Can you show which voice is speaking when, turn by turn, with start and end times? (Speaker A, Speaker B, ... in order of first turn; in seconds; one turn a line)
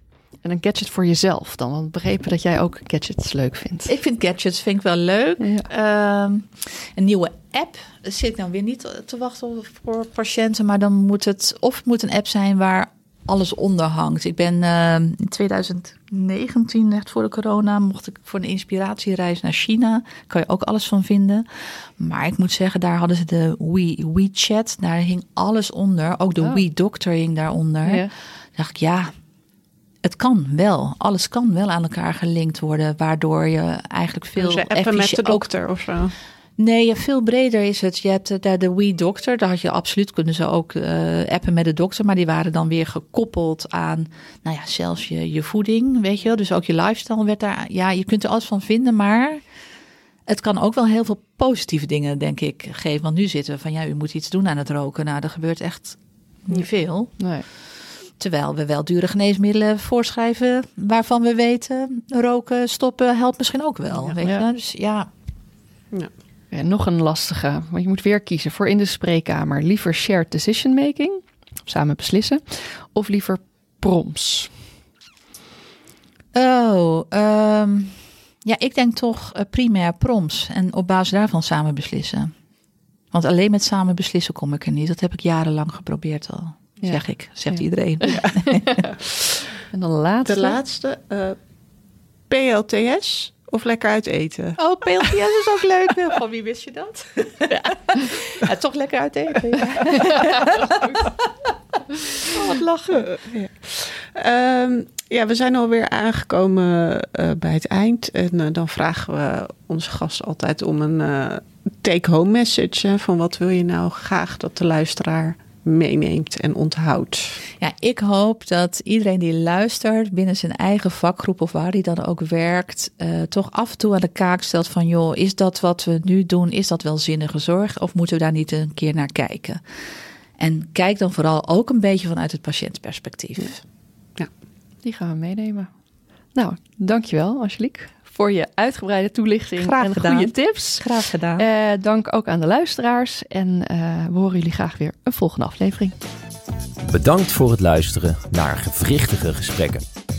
Speaker A: 0.4-3.9
Speaker B: 3.9-29.1
Speaker A: 5.4-5.7
Speaker A: 27.8-28.1
Speaker B: 30.0-35.5
Speaker C: 34.4-36.1
Speaker B: 36.6-49.4
Speaker B: 50.3-57.6
Speaker A: 57.2-57.5
Speaker B: 58.2-65.1
Speaker A: 64.2-64.5
Speaker A: 66.5-74.7
Speaker B: 76.3-82.3
Speaker B: 83.1-88.8
Speaker A: 86.8-89.0
Speaker A: 89.7-90.6
Speaker C: 90.2-91.4
Speaker C: 92.3-95.2
Speaker B: 94.6-100.6
Speaker B: 102.3-103.5
Speaker C: 103.6-117.4
Speaker B: 117.6-129.6
Speaker B: 130.4-133.6
Speaker A: 134.8-145.9
Speaker B: 139.6-141.4
Speaker D: 146.8-149.8